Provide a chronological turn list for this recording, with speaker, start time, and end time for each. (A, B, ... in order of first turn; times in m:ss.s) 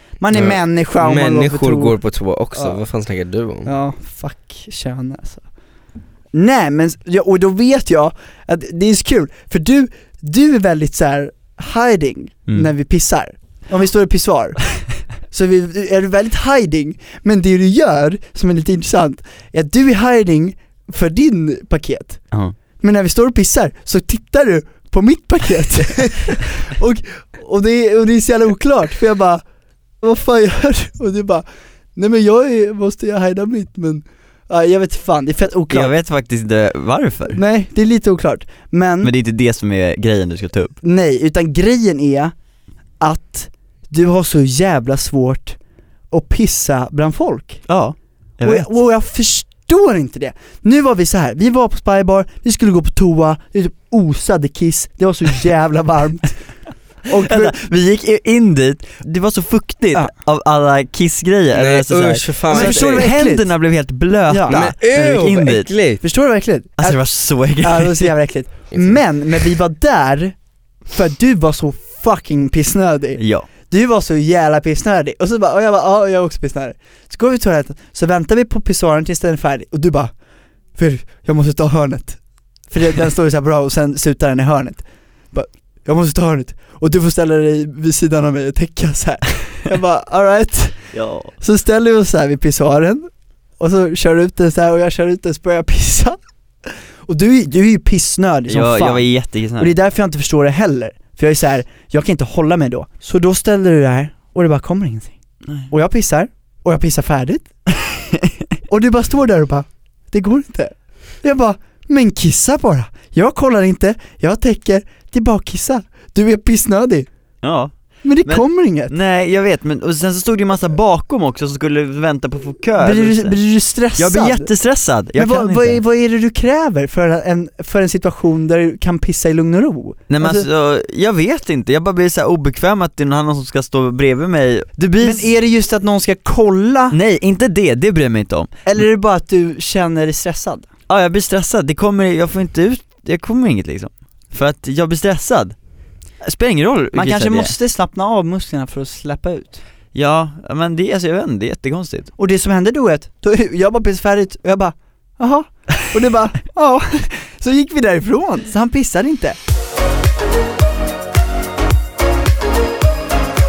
0:00.2-0:02.0 A
0:00.3-0:03.7 B
0:02.5-0:02.8 A
0:03.6-0:05.4 A
0:06.3-0:22.2 A
0:22.8-0:29.4 A
0:30.0-0:35.9 A
0:35.7-0:37.4 C
0:37.3-0:39.1 A
0:39.0-0:40.7 C
0:40.8-0:42.3 A
0:43.0-0:45.6 A
0:46.1-0:47.6 A
0:47.7-0:48.7 C
0:48.4-0:56.4 A
0:57.1-0:57.6 A
0:57.1-1:05.7 C
1:01.5-1:03.1 B
1:02.5-1:03.6 A
1:04.3-1:04.7 A
1:04.5-1:06.0 B
1:06.0-1:07.1 A
1:06.8-1:08.1 C
1:07.6-1:10.4 A
1:08.7-1:09.0 B
1:10.9-1:20.1 A
1:13.2-1:13.4 C
1:20.8-1:33.1 A
1:30.9-1:31.3 C
1:33.6-1:45.1 A
1:38.5-1:39.7 C
1:45.7-1:47.4 A
1:47.8-1:48.3 C
1:48.7-1:57.1 A
1:57.4-2:03.4 C
1:58.0-1:58.9 A
2:02.8-2:04.5 A
2:04.0-2:05.8 C
2:05.1-2:10.5 A
2:10.1-2:15.3 C
2:15.0-2:17.0 A
2:16.9-2:18.5 C
2:18.6-2:20.7 A
2:20.9-2:25.6 C
2:26.2-2:27.5 C
2:26.9-2:29.6 A
2:29.9-2:32.1 C
2:32.2-2:39.4 A